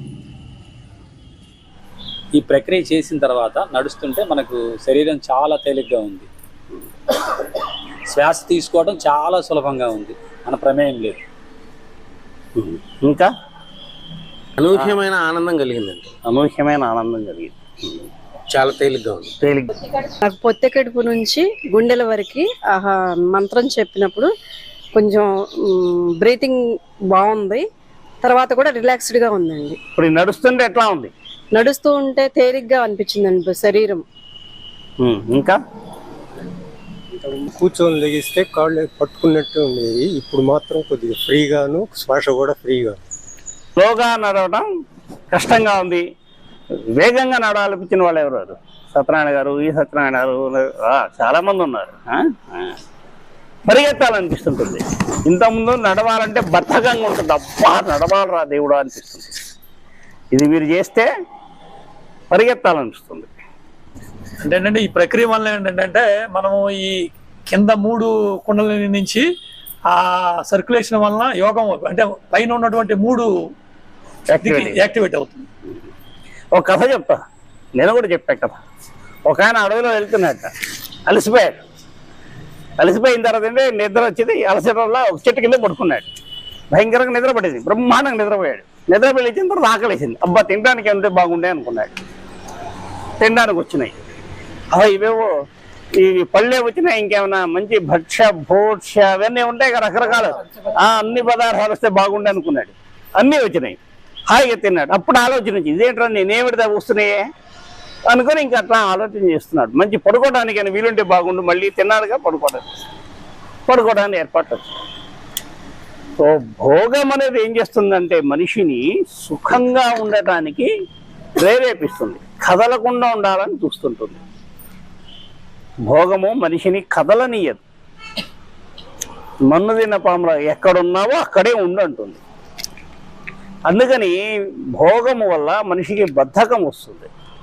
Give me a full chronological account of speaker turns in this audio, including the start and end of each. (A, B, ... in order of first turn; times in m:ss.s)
0:02.4-0:06.3 A
0:08.1-0:11.2 A
0:12.6-0:13.3 B
0:14.6-0:16.1 C
0:16.2-0:18.0 B
0:18.5-0:19.4 C
0:19.4-0:19.7 B
0:20.2-0:24.3 D
0:24.9-0:27.6 D
0:28.2-0:29.8 D
0:30.0-0:31.1 B
0:31.5-0:34.0 D
0:35.0-0:35.6 B
0:37.2-0:43.0 E
0:43.8-0:44.6 B
0:45.3-0:46.0 B
0:46.9-0:52.7 B
0:53.7-0:59.3 B
1:00.3-1:01.1 B
1:02.3-1:03.3 B
1:04.4-1:09.2 F
1:09.9-1:13.3 F
1:14.3-1:14.8 B
1:14.4-1:15.4 F
1:16.5-1:17.2 B
1:17.8-1:18.6 B
1:19.2-1:20.5 B
1:21.1-1:21.6 B
1:22.8-1:26.0 B
1:26.7-1:32.0 B
1:33.2-1:34.0 B
1:34.7-1:35.3 B
1:36.0-1:43.8 B
1:44.3-1:47.2 B
1:48.1-1:52.7 B
1:53.7-1:54.8 B
1:56.2-2:00.7 B
2:01.4-2:04.2 B
2:05.9-2:07.6 B
2:09.5-2:12.2 B
2:13.7-2:14.2 B
2:14.8-2:17.1 B